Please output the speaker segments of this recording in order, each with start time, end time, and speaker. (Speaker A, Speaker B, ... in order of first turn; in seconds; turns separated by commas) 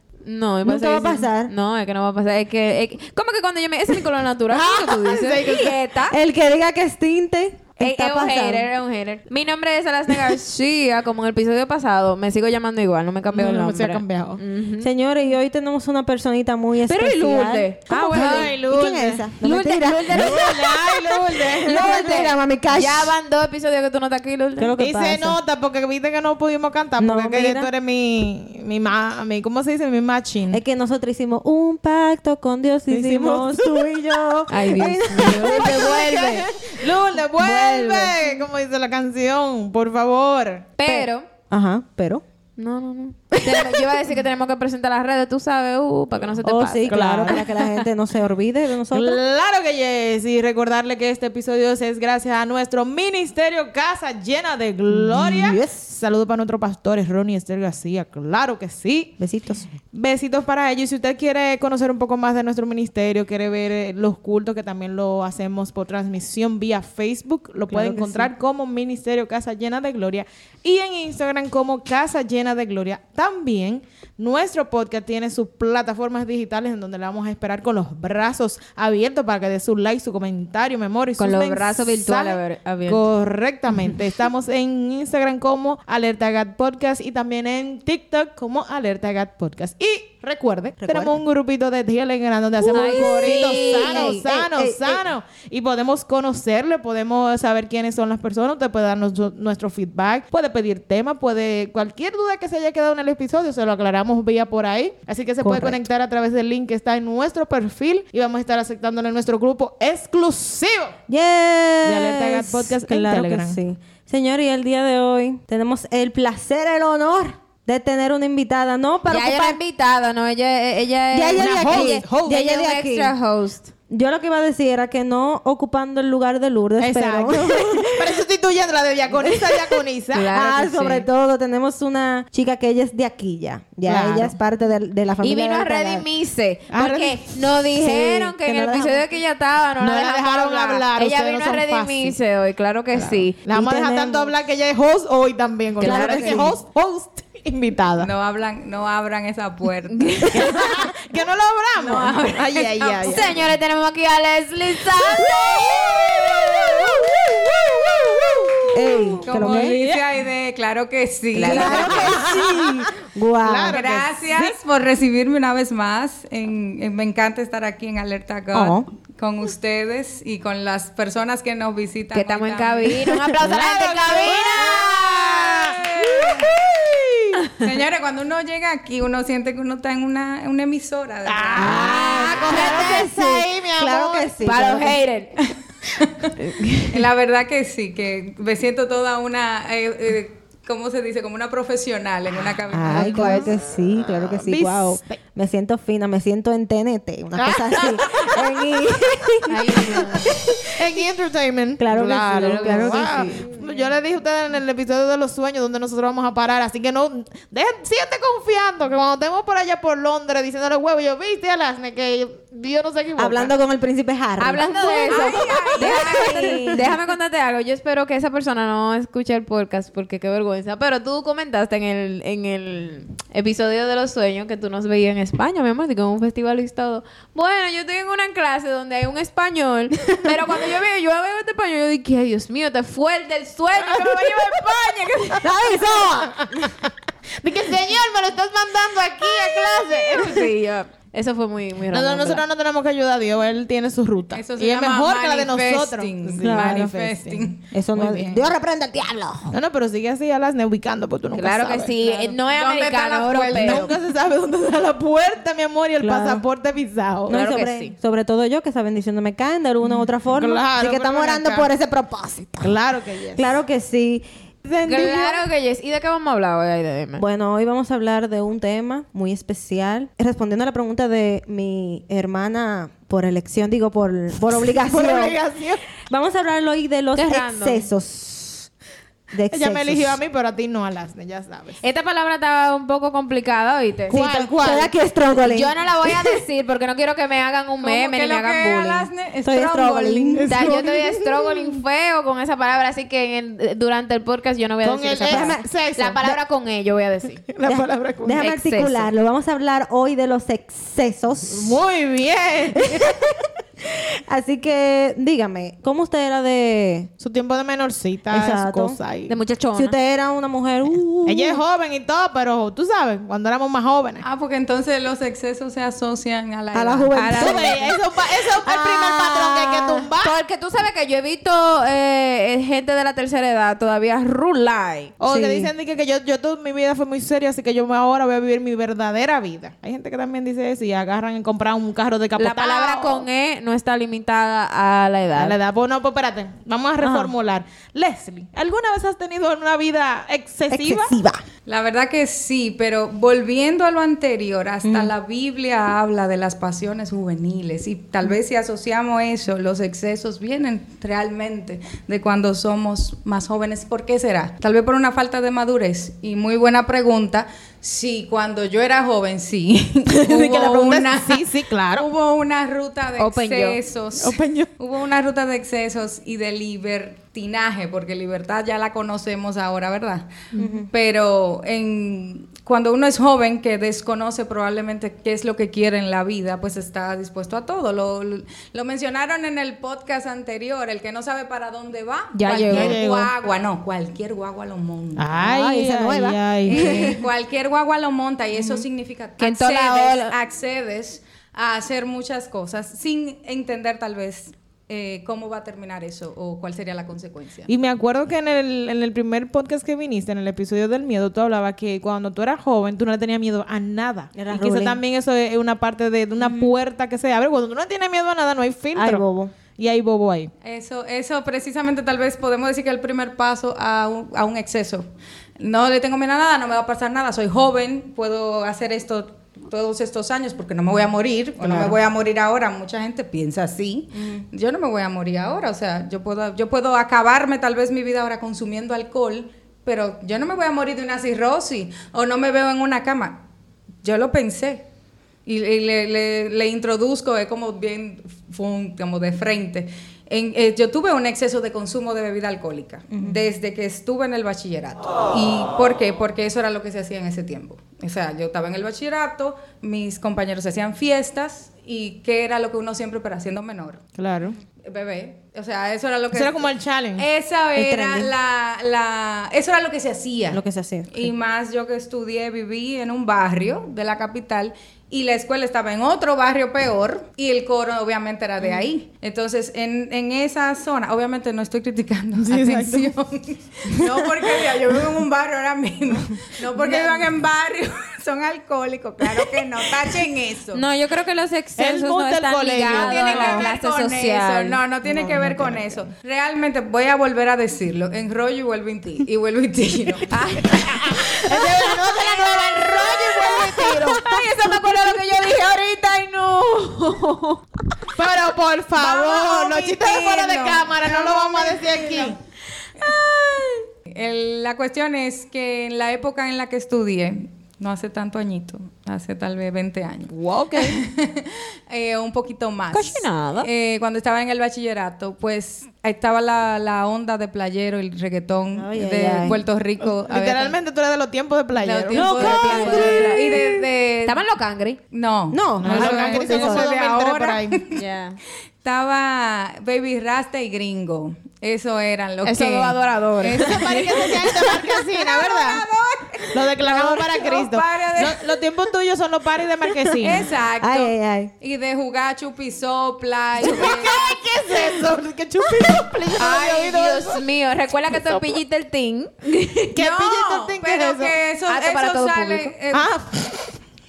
Speaker A: 0.2-6.2, Speaker B: 0.6-1.5, Speaker C: 4.5-5.8, Speaker B: 6.1-8.7, Speaker A: 7.8-14.9, Speaker C: 13.3-14.4, Speaker B: 14.8-20.8, Speaker A: 16.9-18.5, Speaker C: 18.0-19.2, Speaker A: 19.4-24.7, Speaker C: 20.0-22.3, Speaker B: 21.6-23.1, Speaker B: 24.6-25.4, Speaker C: 24.8-30.6, Speaker B: 27.0-27.7, Speaker B: 30.5-36.5, Speaker C: 32.9-34.5, Speaker A: 34.5-36.7, Speaker C: 35.1-40.7, Speaker A: 37.3-38.3, Speaker A: 40.8-41.2, Speaker B: 40.8-42.2, Speaker A: 42.6-47.8, Speaker B: 43.4-43.8, Speaker B: 46.4-49.2, Speaker C: 46.9-47.4, Speaker C: 48.9-59.2, Speaker B: 54.9-55.8, Speaker B: 59.2-59.7, Speaker C: 59.8-111.0, Speaker B: 67.7-68.3, Speaker A: 81.2-83.1, Speaker B: 90.8-91.2, Speaker B: 92.6-95.0, Speaker A: 92.7-94.2, Speaker B: 105.4-105.9, Speaker B: 111.1-119.6, Speaker C: 111.8-113.6, Speaker A: 119.1-123.7, Speaker B: 121.1-123.1, Speaker C: 121.4-122.4, Speaker B: 123.9-128.1, Speaker C: 126.8-130.3, Speaker A: 129.2-131.1, Speaker B: 130.3-136.1, Speaker C: 133.8-134.3, Speaker A: 135.2-143.4, Speaker C: 136.7-137.4, Speaker B: 137.8-139.1, Speaker C: 139.8-142.1, Speaker C: 143.4-148.1, Speaker B: 143.5-144.3, Speaker A: 145.8-146.5, Speaker B: 145.8-146.6, Speaker D: 148.0-150.7, Speaker A: 149.9-150.8, Speaker C: 150.3-153.5, Speaker D: 151.8-153.4, Speaker A: 153.0-156.5, Speaker C: 155.2-160.0, Speaker B: 158.7-159.7, Speaker D: 159.2-162.0, Speaker A: 161.3-162.2, Speaker B: 161.4-163.8, Speaker C: 161.5-162.8, Speaker C: 163.4-164.5, Speaker D: 163.7-173.0, Speaker B: 168.5-168.9, Speaker A: 172.1-174.9, Speaker B: 173.1-173.4, Speaker C: 173.3-177.4, Speaker D: 174.2-176.5, Speaker D: 177.6-182.6, Speaker C: 181.2-184.5, Speaker A: 181.6-183.2, Speaker B: 181.8-185.0, Speaker A: 184.4-185.3, Speaker D: 185.4-186.3, Speaker A: 186.4-186.9, Speaker D: 186.9-193.5, Speaker B: 192.7-200.6, Speaker C: 192.8-195.2, Speaker C: 197.3-198.4, Speaker A: 199.5-200.7, Speaker C: 200.7-213.5, Speaker B: 201.8-203.5, Speaker A: 202.2-203.9, Speaker B: 213.2-216.9, Speaker A: 214.4-235.5, Speaker D: 215.1-216.8, Speaker C: 235.4-236.9, Speaker B: 235.4-236.7, Speaker C: 237.4-240.5, Speaker A: 239.4-242.4, Speaker C: 241.9-247.4, Speaker D: 244.3-248.5, Speaker B: 246.3-246.9, Speaker B: 247.7-249.6, Speaker C: 249.5-251.9, Speaker A: 251.3-253.9, Speaker D: 252.0-253.9, Speaker C: 253.5-257.3, Speaker B: 256.0-256.4, Speaker B: 257.3-262.8, Speaker A: 257.3-257.9, Speaker C: 259.8-261.7, Speaker C: 262.6-263.4, Speaker B: 263.3-264.2, Speaker C: 264.6-265.4, Speaker A: 264.9-267.2, Speaker B: 267.2-275.4, Speaker C: 274.9-275.8, Speaker B: 276.1-278.7, Speaker A: 277.1-277.9, Speaker B: 279.3-280.2, Speaker C: 279.5-281.8, Speaker A: 281.8-284.2, Speaker C: 284.1-284.9, Speaker B: 284.1-285.7, Speaker A: 285.4-289.1, Speaker D: 287.8-290.5, Speaker B: 289.4-291.3, Speaker C: 290.4-291.3, Speaker A: 290.5-297.4, Speaker C: 294.8-296.2, Speaker B: 295.2-295.7, Speaker C: 297.5-298.5, Speaker B: 297.6-301.8, Speaker A: 298.4-299.1, Speaker C: 301.5-303.2, Speaker B: 302.9-307.1, Speaker C: 307.2-309.3, Speaker B: 308.3-309.0, Speaker A: 309.3-309.9, Speaker B: 309.7-311.6, Speaker C: 311.2-314.2, Speaker D: 314.2-317.1, Speaker B: 316.7-320.1, Speaker A: 317.1-317.9, Speaker C: 317.4-320.3, Speaker A: 320.2-325.1, Speaker C: 325.2-333.2, Speaker B: 325.3-325.7, Speaker A: 332.4-335.6, Speaker C: 335.3-341.1, Speaker B: 337.0-337.3, Speaker B: 340.7-341.4, Speaker D: 341.7-385.4, Speaker B: 344.8-345.1, Speaker C: 360.1-362.1, Speaker A: 363.2-363.8, Speaker C: 364.2-364.7, Speaker B: 370.6-370.9, Speaker A: 382.3-382.9, Speaker C: 382.7-383.3, Speaker C: 385.2-387.1, Speaker B: 385.4-387.2, Speaker D: 386.6-397.7, Speaker B: 388.5-388.8, Speaker A: 389.4-390.3, Speaker C: 397.7-410.5, Speaker B: 404.3-405.0, Speaker B: 406.4-406.7, Speaker B: 408.9-409.5, Speaker D: 410.6-433.4, Speaker C: 421.6-421.9, Speaker B: 424.1-424.4, Speaker D: 434.0-434.9, Speaker D: 435.4-454.0, Speaker B: 443.1-443.4, Speaker C: 454.1-454.6, Speaker D: 454.8-480.8, Speaker C: 456.3-457.2, Speaker B: 457.8-458.3, Speaker B: 460.5-461.3, Speaker C: 472.4-473.1, Speaker C: 476.8-477.2, Speaker A: 480.7-484.8, Speaker C: 481.8-483.6, Speaker D: 482.9-491.7, Speaker B: 485.1-485.8, Speaker C: 485.1-485.5, Speaker A: 490.3-497.6, Speaker C: 490.9-494.3, Speaker D: 492.9-494.0, Speaker C: 498.1-502.4, Speaker D: 498.9-502.4, Speaker A: 503.0-503.8, Speaker D: 504.1-520.8, Speaker C: 510.3-511.0, Speaker A: 512.9-513.7, Speaker B: 518.7-519.6, Speaker C: 520.0-523.1, Speaker D: 521.7-524.4, Speaker B: 522.1-523.6, Speaker A: 522.3-525.0, Speaker D: 525.1-528.0, Speaker B: 525.5-526.9, Speaker C: 525.8-527.8, Speaker A: 527.9-528.4, Speaker D: 528.8-534.4, Speaker A: 532.4-535.0, Speaker C: 533.6-535.8, Speaker D: 535.2-538.6, Speaker C: 536.5-540.5, Speaker B: 536.9-537.2, Speaker D: 540.2-544.7, Speaker B: 540.8-541.5, Speaker C: 543.6-547.4, Speaker A: 546.4-549.9, Speaker C: 548.1-548.6, Speaker C: 549.9-551.3, Speaker D: 550.0-553.1, Speaker A: 551.7-552.7, Speaker C: 552.9-553.6